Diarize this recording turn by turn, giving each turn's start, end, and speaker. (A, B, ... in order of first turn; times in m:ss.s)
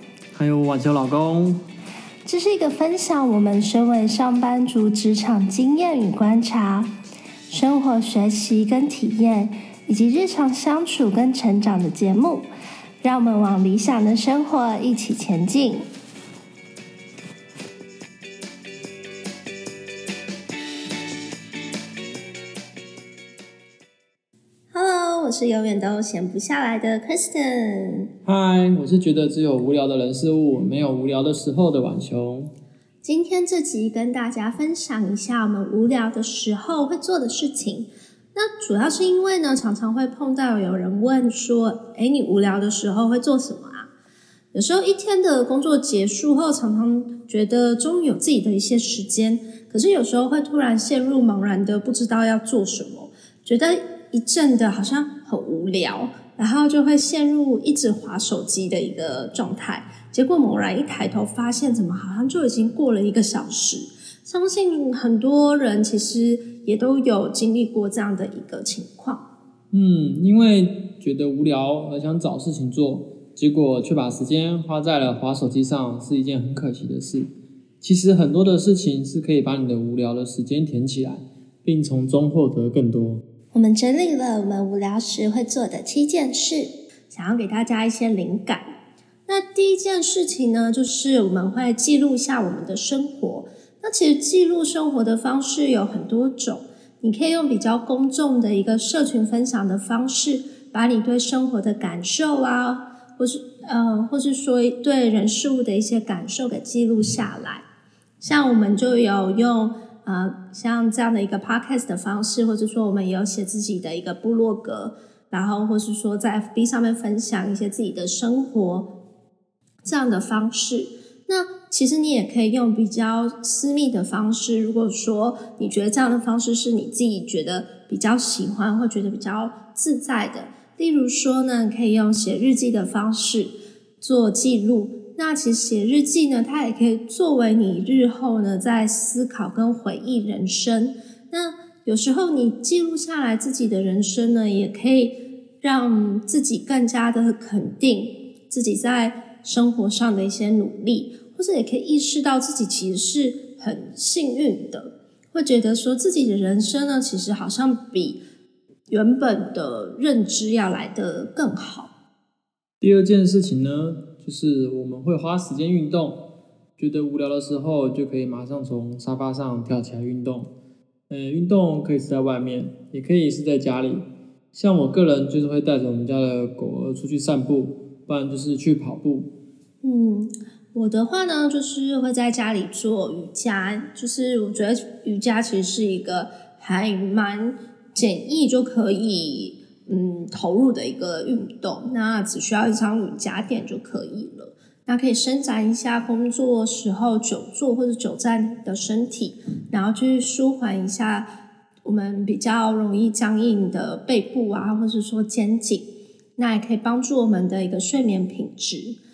0:00.4-0:01.6 A
0:02.3-0:06.9 B
0:07.5-0:12.5 B
0:13.0-0:15.9 B
0:24.7-0:28.1 B
0:28.2-0:32.5 A
0:33.0-0:43.9 B
0:44.5-1:09.2 B
1:09.7-1:17.3 A
1:17.8-1:23.2 A
1:23.5-1:28.6 B
1:29.3-1:47.6 B
1:48.2-1:58.9 B
1:59.8-2:38.2 B
2:38.9-2:41.9 B
2:42.8-2:46.2 A
2:46.8-2:50.5 A
2:51.1-2:59.3 A
2:59.8-3:21.3 B
3:21.8-3:29.0 B